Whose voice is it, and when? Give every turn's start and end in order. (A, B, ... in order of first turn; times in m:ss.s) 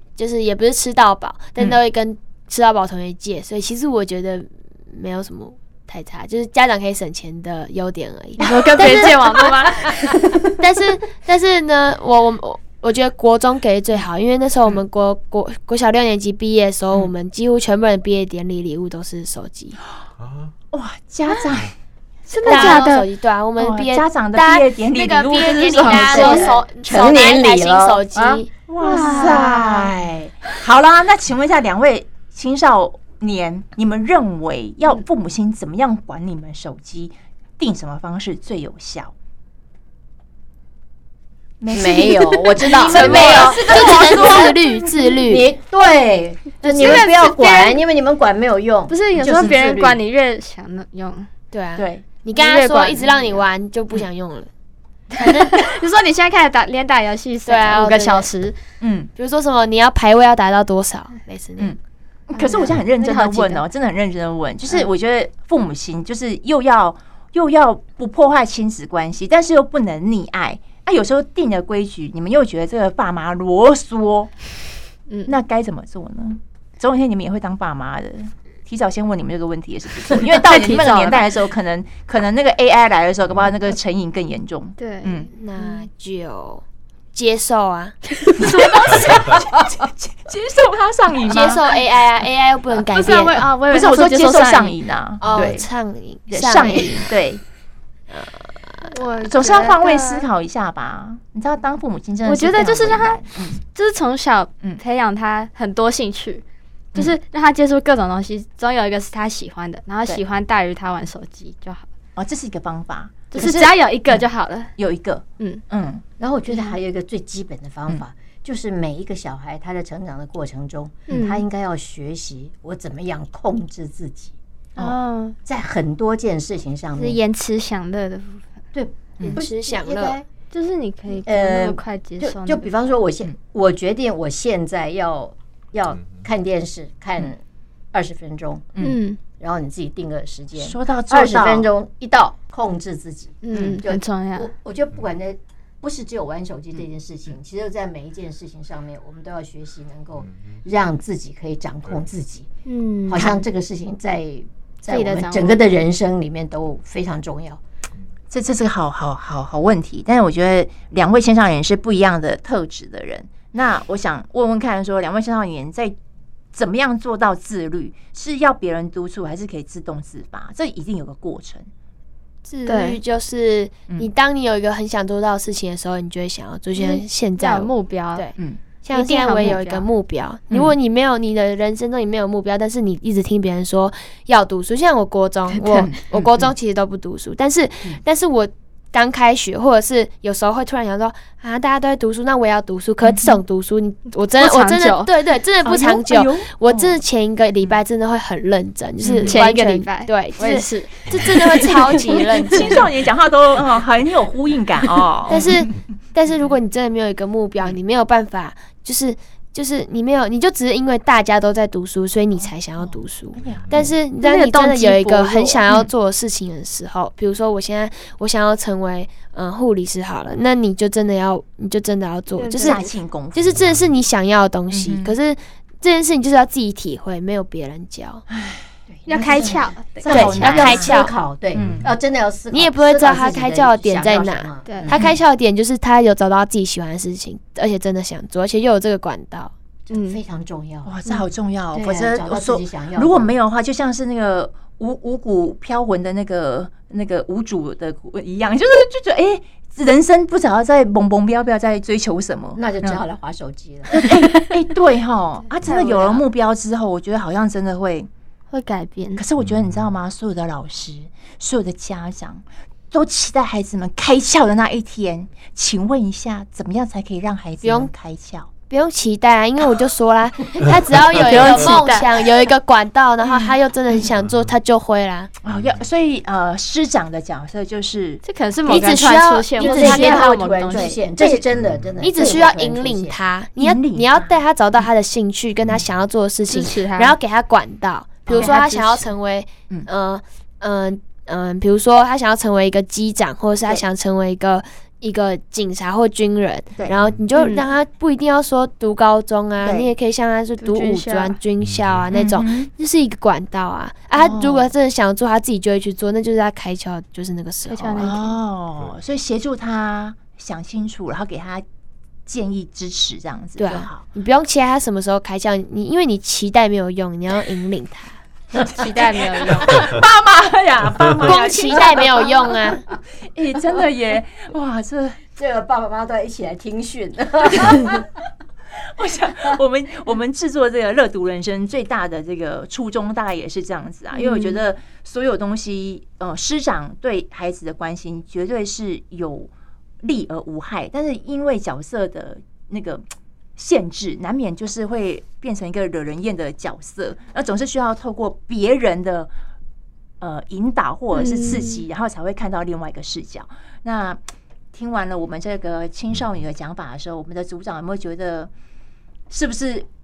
0:00.2-0:19.8 A
0:08.4-0:10.1 B
0:20.2-0:20.5 C
0:20.7-0:21.7 D
0:22.3-0:23.1 B
0:22.4-0:29.6 A
0:22.4-0:22.9 D
0:23.6-0:26.5 D
0:25.6-0:26.6 B
0:26.0-0:28.4 E
0:28.7-0:39.1 D
0:28.8-0:29.7 B
0:41.6-0:44.6 D
0:41.7-0:44.6 E
0:42.9-0:45.5 A
0:43.1-0:43.5 B
0:45.1-0:50.0 E
0:46.6-0:47.8 B
0:46.8-0:47.1 D
0:46.8-0:47.0 A
0:48.9-0:51.3 B
0:51.5-0:54.5 A
0:51.8-0:52.0 D
0:52.3-0:53.4 B
0:55.1-0:58.6 B
0:55.2-0:55.7 A
0:57.4-0:58.3 A
0:58.8-0:59.1 D
0:59.2-1:01.7 A
1:02.3-1:14.4 D
1:02.3-1:03.6 B
1:15.2-1:25.3 D
1:20.3-1:21.2 E
1:24.8-1:25.8 B
1:25.3-1:26.6 A
1:27.1-1:29.2 A
1:28.4-1:31.8 D
1:31.2-1:33.5 A
1:32.9-1:35.6 B
1:33.6-1:35.7 D
1:35.2-1:37.1 A
1:36.3-1:37.4 D
1:38.1-1:38.9 A
1:38.9-1:40.2 B
1:39.2-1:43.6 D
1:42.2-1:51.8 B
1:52.2-1:54.2 D
1:53.3-1:54.7 B
1:54.8-1:56.0 D
1:56.2-2:04.3 E
2:01.1-2:01.4 B
2:04.8-2:05.4 B
2:05.4-2:07.2 E
2:06.9-2:08.4 B
2:08.7-2:10.2 E
2:09.3-2:10.2 A
2:10.5-2:12.7 B
2:11.2-2:17.4 E
2:17.9-2:18.7 E
2:18.8-2:19.2 B
2:19.3-2:32.5 E
2:20.6-2:21.7 D
2:23.4-2:24.5 B
2:32.6-2:33.4 B
2:33.1-2:37.6 E
2:34.9-2:35.6 B
2:38.3-2:45.9 D
2:46.5-2:51.7 D
2:52.5-3:22.9 A
2:52.6-2:53.0 B
2:56.7-2:58.3 B
2:58.9-2:59.9 B
3:05.5-3:05.9 B
3:05.8-3:06.5 D
3:13.0-3:13.4 D
3:14.3-3:15.1 B
3:15.6-3:17.0 D
3:19.0-3:19.4 D
3:19.2-3:22.8 B
3:21.1-3:25.6 D
3:25.3-3:48.2 A
3:32.4-3:34.0 D
3:33.5-3:33.9 C
3:34.2-3:35.6 B
3:42.3-3:42.8 B
3:42.6-3:43.7 D
3:44.7-3:45.1 D
3:48.3-3:48.6 D
3:49.1-3:49.9 B
3:49.1-3:55.1 E
3:50.0-3:51.0 D
3:50.1-3:51.1 A
3:50.4-3:50.7 B
3:51.5-3:51.8 D
3:52.5-3:59.5 A
3:54.6-3:54.9 B
3:54.9-3:55.2 D
3:59.9-4:00.2 B
3:59.9-4:01.2 E
4:00.8-4:13.0 D
4:01.7-4:03.3 E
4:12.6-4:14.0 E
4:13.9-4:18.1 D
4:14.1-4:14.5 B
4:15.6-4:16.2 B
4:18.5-4:19.2 B
4:19.2-4:28.5 D
4:19.4-4:19.8 C
4:27.6-4:27.9 A
4:28.7-4:35.3 A
4:31.2-4:32.1 B
4:31.3-4:31.8 D
4:35.4-4:38.2 D
4:35.5-4:35.8 C
4:38.2-4:41.0 B
4:38.7-4:43.2 E
4:39.6-4:41.4 D
4:41.6-4:41.9 C
4:42.0-5:08.2 A
4:43.6-4:44.2 D
4:46.5-4:47.2 B
4:48.2-4:49.1 D
4:48.4-4:48.6 B
4:57.3-4:57.6 B
4:59.6-4:59.9 D
5:00.6-5:01.4 B
5:01.6-5:02.0 C
5:02.1-5:02.7 D
5:04.1-5:04.7 D
5:07.7-5:08.3 B
5:08.0-5:11.6 D
5:12.2-5:14.0 D
5:13.6-5:18.2 A
5:18.7-5:22.7 D
5:18.7-5:19.9 B
5:21.2-5:22.8 A
5:23.3-5:25.2 D
5:25.3-5:28.0 E
5:29.0-5:39.5 D
5:34.1-5:34.6 B
5:40.0-5:43.0 D
5:43.6-5:49.3 D
5:50.2-5:54.2 D
5:51.1-5:51.8 B
5:54.7-5:58.5 D
5:59.3-5:59.9 D